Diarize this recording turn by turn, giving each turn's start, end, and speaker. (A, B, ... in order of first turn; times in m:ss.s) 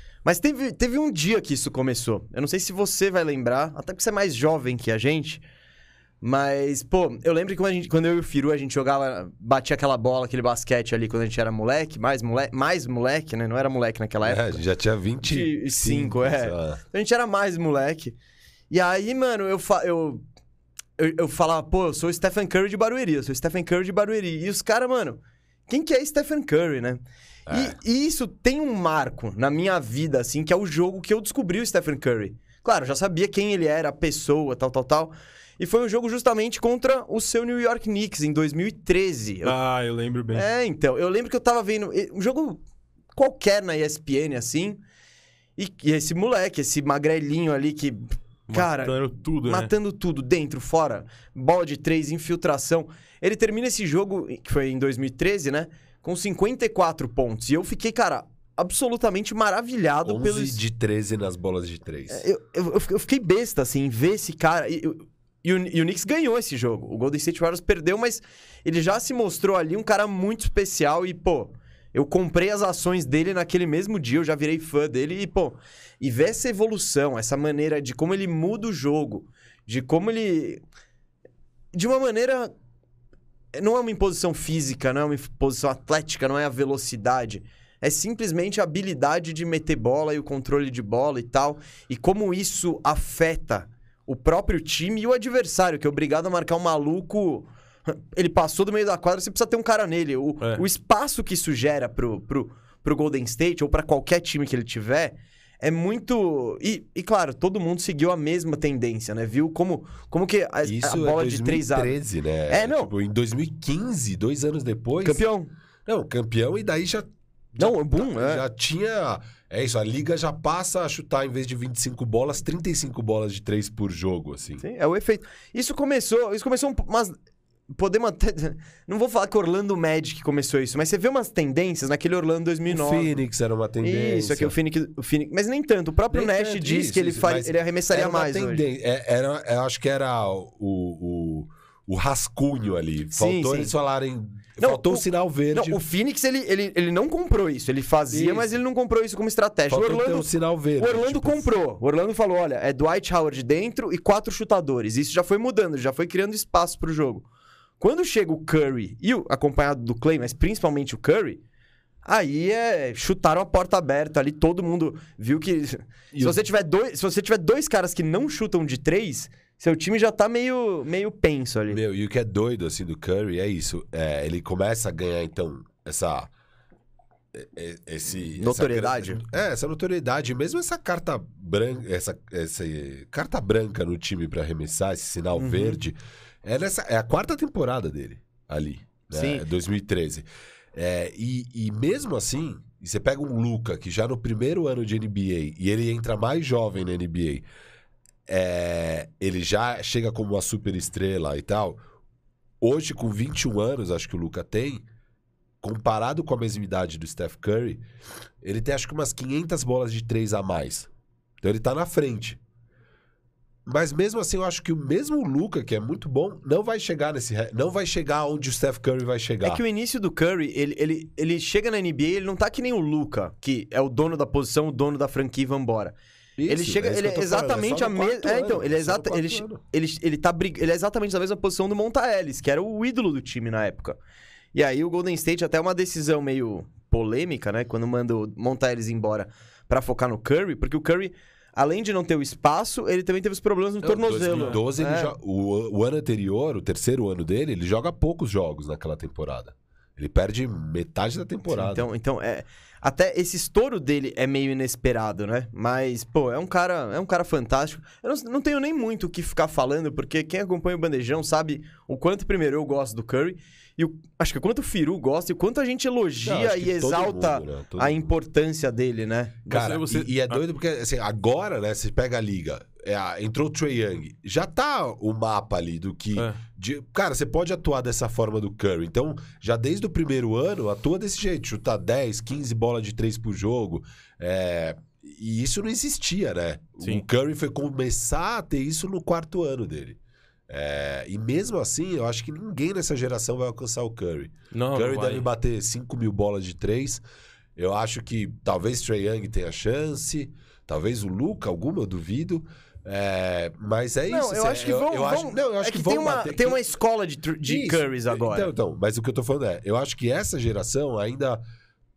0:00.2-0:05.4 A
0:06.2-0:14.6 A
0:14.2-0:16.8 B
0:15.2-0:18.2 A
0:18.7-0:20.2 A
0:21.0-0:39.5 A
0:27.5-0:27.8 B
0:39.4-0:40.5 C
0:40.3-0:42.6 A
0:43.1-0:44.8 A
0:45.6-1:00.6 A
0:48.5-0:49.7 C
1:00.0-1:02.3 B
1:02.1-1:20.6 A
1:21.7-1:22.5 A
1:23.5-1:52.0 A
1:50.6-1:55.2 B
1:52.5-1:52.9 A
1:55.0-1:55.5 A
1:55.8-2:04.6 B
1:57.6-1:58.4 A
2:04.6-2:07.1 A
2:07.7-2:13.1 A
2:12.7-2:14.6 B
2:13.8-2:18.6 A
2:16.1-2:25.8 B
2:23.1-2:23.7 A
2:24.6-2:37.2 A
2:28.1-2:28.5 B
2:29.7-2:31.5 B
2:37.8-2:41.4 A
2:42.0-2:51.8 A
2:46.1-2:46.4 B
2:51.7-2:56.3 B
2:57.3-3:17.4 B
2:58.4-2:59.2 A
3:05.4-3:05.8 A
3:09.1-3:09.4 A
3:18.3-3:21.8 B
3:22.6-3:24.8 B
3:25.6-3:27.8 B
3:28.4-3:30.9 B
3:31.4-3:32.4 B
3:33.6-3:39.6 B
3:39.4-3:45.9 A
3:46.4-3:49.6 B
3:46.5-3:54.0 A
3:54.5-4:05.1 A
4:03.8-4:11.9 B
4:04.3-4:04.6 C
4:11.5-4:29.5 A
4:26.2-4:28.1 B
4:29.5-4:57.0 B
4:29.5-4:30.4 C
4:54.5-4:55.2 C
4:57.6-5:06.7 B
5:04.1-5:08.5 A
5:07.4-5:11.4 B